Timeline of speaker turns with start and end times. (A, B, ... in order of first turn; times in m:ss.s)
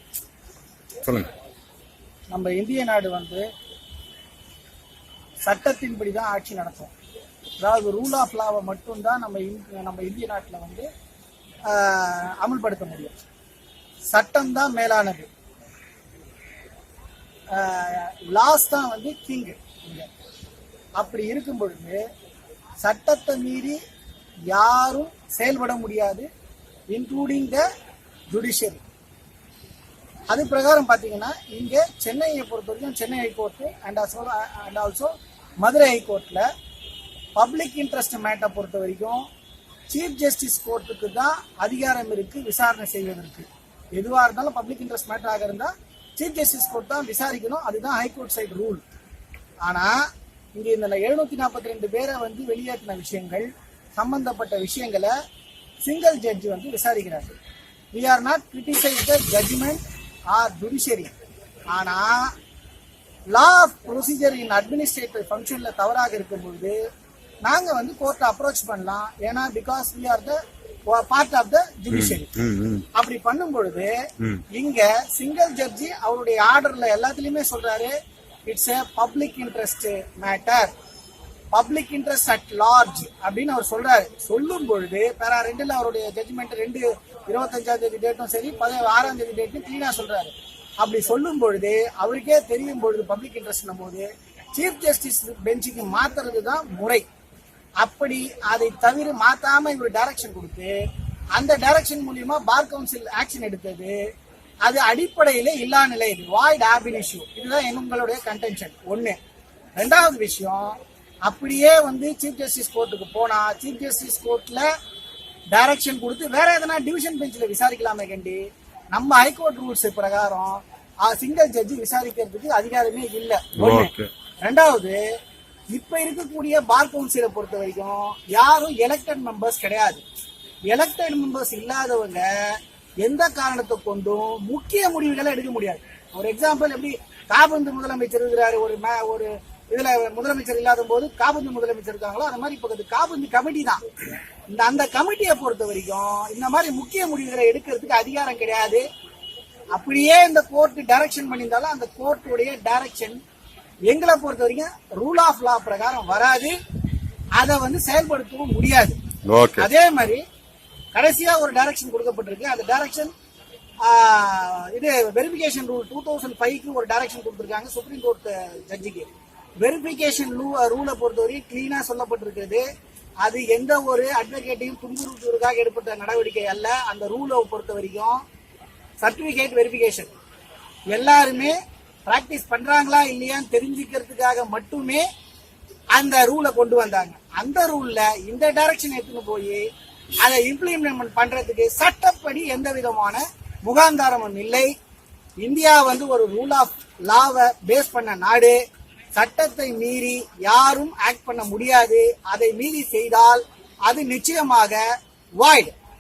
0:01.0-0:01.3 A
0:02.3-0:03.5 B
0:05.5-0:06.9 B
0:07.6-0:10.9 B
0:11.7-0:13.2 B
0:14.1-0:15.3 B
0:17.5-0:20.1 B
0:21.0-0:22.0 B
0:22.8-0:23.8 B
0:24.5-0:26.3 B
0:26.9-0:27.6 B
0:28.3-0:28.8 B
0:30.3-0:36.5 B
0:37.4-0:39.3 B
0:39.9-0:48.8 B
0:49.6-0:50.0 B
0:50.6-0:55.1 B
0:55.8-0:57.3 B
0:57.9-1:01.1 B
1:01.7-1:02.4 B
1:03.3-1:06.8 B
1:07.4-1:12.3 B
1:11.9-1:12.8 A
1:13.0-1:13.9 B
1:14.5-1:17.9 B
1:18.5-1:20.7 B
1:21.5-1:37.0 B
1:37.8-1:40.8 B
1:41.4-1:44.0 B
1:44.6-1:49.2 B
1:49.8-1:54.7 B
1:55.5-1:58.4 B
1:58.9-2:03.9 B
2:03.6-2:04.1 A
2:04.4-2:05.0 B
2:05.7-2:10.0 B
2:10.7-2:23.8 B
2:24.5-2:28.8 B
2:29.7-2:33.2 B
2:33.9-2:36.6 B
2:37.4-2:39.0 B
2:39.3-2:39.7 A
2:39.6-2:40.2 B
2:40.9-2:43.1 B
2:43.8-2:49.1 B
2:49.6-2:52.6 B
2:53.2-2:58.2 B
2:59.0-3:00.1 B
3:00.9-3:05.1 B
3:06.0-3:09.7 B
3:10.2-3:14.7 B
3:15.4-3:18.6 B
3:19.2-3:24.8 B
3:25.4-3:25.7 B